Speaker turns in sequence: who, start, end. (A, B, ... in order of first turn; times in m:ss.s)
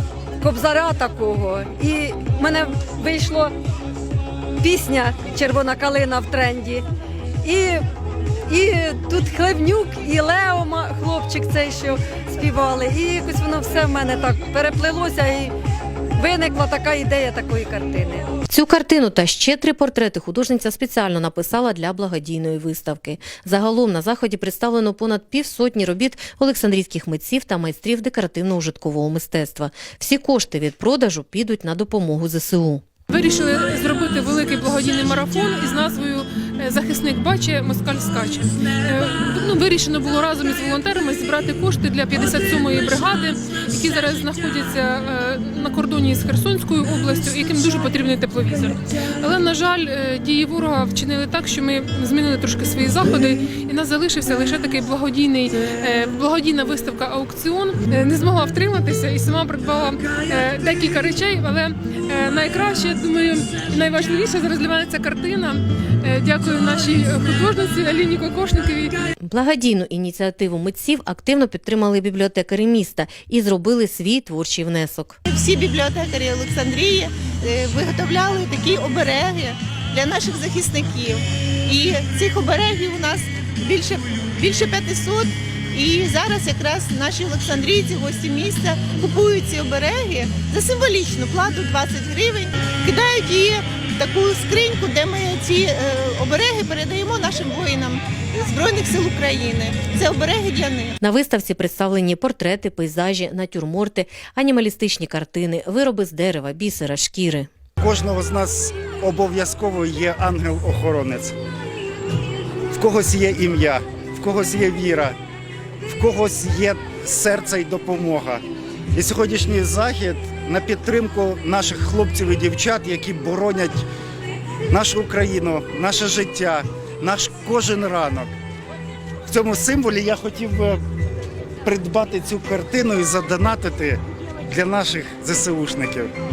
0:00.4-0:03.5 A
0:04.6-0:06.8 A
0:07.4-0:07.8 A
0:08.5-0:15.6 A
0:16.2-0:18.3 A
0:18.5-0:32.8 B
0:33.1-1:09.0 C
1:09.2-1:15.2 B
1:15.3-1:41.0 D
1:41.0-1:47.5 B
1:47.8-1:51.3 E
1:52.7-1:55.2 E
1:55.9-1:58.4 E
1:58.9-2:03.8 E
2:04.7-2:08.3 E
2:09.3-2:10.8 E
2:11.6-2:16.1 E